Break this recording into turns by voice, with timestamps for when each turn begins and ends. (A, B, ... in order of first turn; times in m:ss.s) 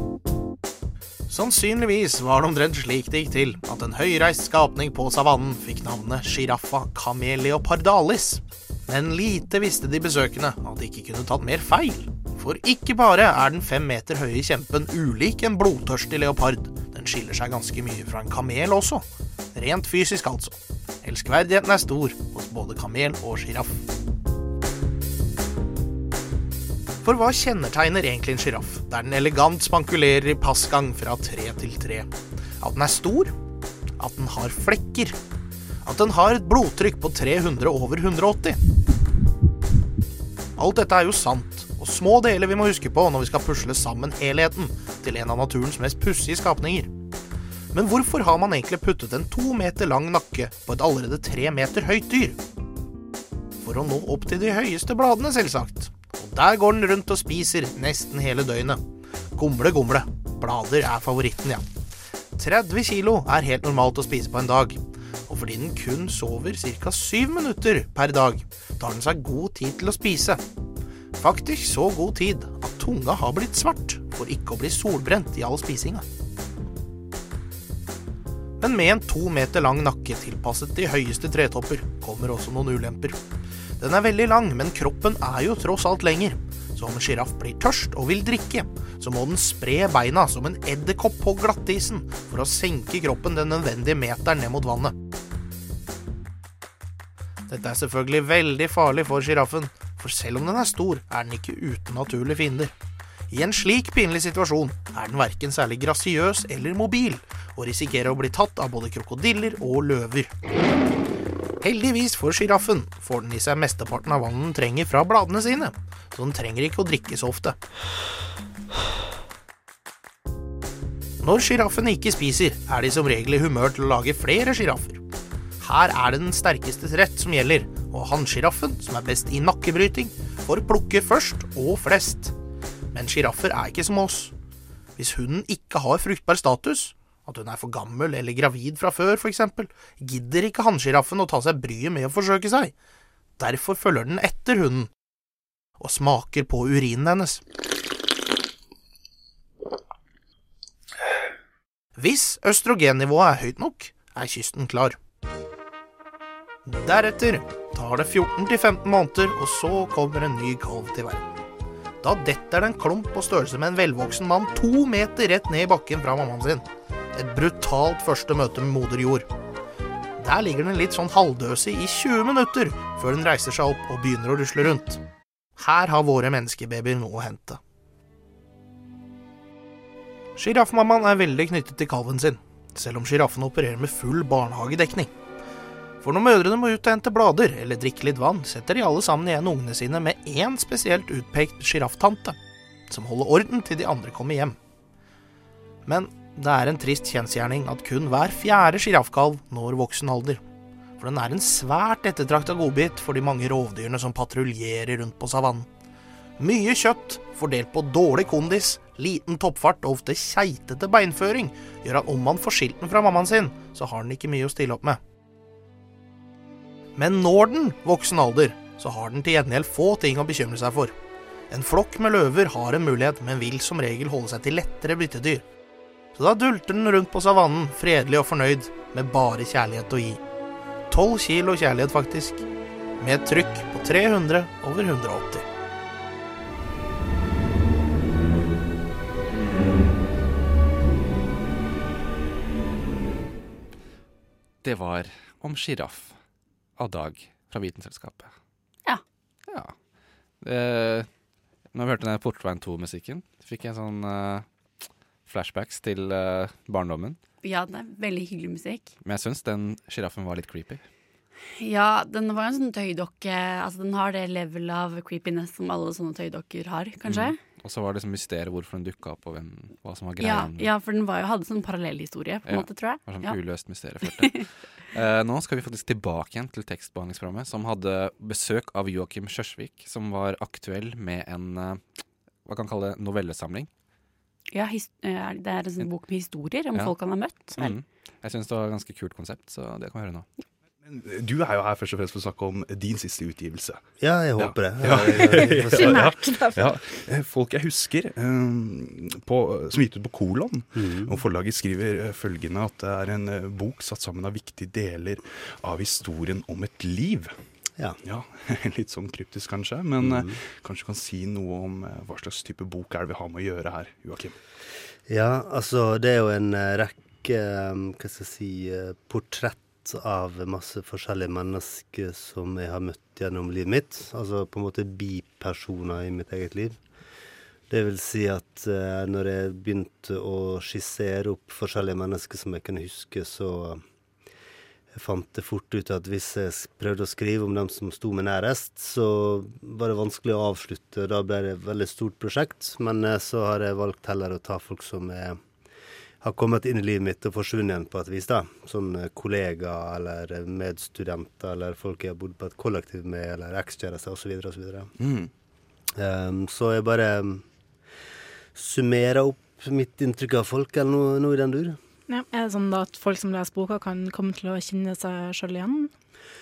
0:01.3-0:23.8 A
0:27.0-0:32.1 A
0:32.6-0:33.3 A
0:34.0-0:35.2 A
0:35.8-0:38.6 A
0:40.6-0:46.9 A
0:47.7-0:52.4 A
0:53.6-0:58.8 A
0:59.4-1:01.6 A
1:02.4-1:10.4 A
1:11.2-1:16.0 A
1:18.6-1:23.2 A
1:23.8-1:34.9 A
1:37.5-1:42.7 A
1:43.3-1:50.3 A
1:51.6-1:57.6 A
2:01.2-2:05.0 A
2:05.6-2:12.3 A
2:12.9-2:14.3 A
2:15.0-2:22.7 A
2:23.4-2:24.9 A
2:25.8-2:27.4 A
2:32.0-2:35.0 A
2:36.7-2:41.3 A
2:42.0-2:49.3 A
2:50.2-2:55.0 A
2:55.6-2:57.6 A
3:00.4-3:05.1 A
3:06.0-3:12.4 A
3:12.9-3:14.6 A
3:15.9-3:20.4 A
3:21.0-3:25.7 A
3:26.4-3:35.0 A
3:37.0-3:40.9 A
3:41.5-3:45.4 A
3:46.2-3:50.2 A
3:50.9-3:52.4 A
3:53.0-3:55.4 A
4:04.6-4:06.2 B
4:06.8-4:08.3 B
4:09.5-4:09.8 B
4:10.4-4:11.1 B
4:11.7-4:14.5 B
4:15.3-4:17.2 B
4:17.4-4:19.0 C
4:19.0-4:20.8 B
4:21.6-4:27.4 C
4:27.1-4:30.7 B
4:30.2-4:33.4 C
4:32.5-4:41.8 B
4:34.0-4:34.4 C
4:42.5-4:43.7 B
4:44.5-4:47.8 C
4:47.5-4:50.3 B
4:50.8-4:53.8 D
4:54.0-4:56.2 E
4:54.4-5:07.4 D
4:55.6-4:56.8 F
5:00.8-5:01.2 E
5:08.0-5:14.3 D
5:10.0-5:10.4 E
5:15.1-5:26.8 E
5:27.7-5:33.8 E
5:34.9-5:45.4 E
5:46.2-5:54.9 E
5:55.0-5:55.3 D
5:56.0-5:57.4 E
5:58.6-6:01.8 E
6:02.1-6:05.9 F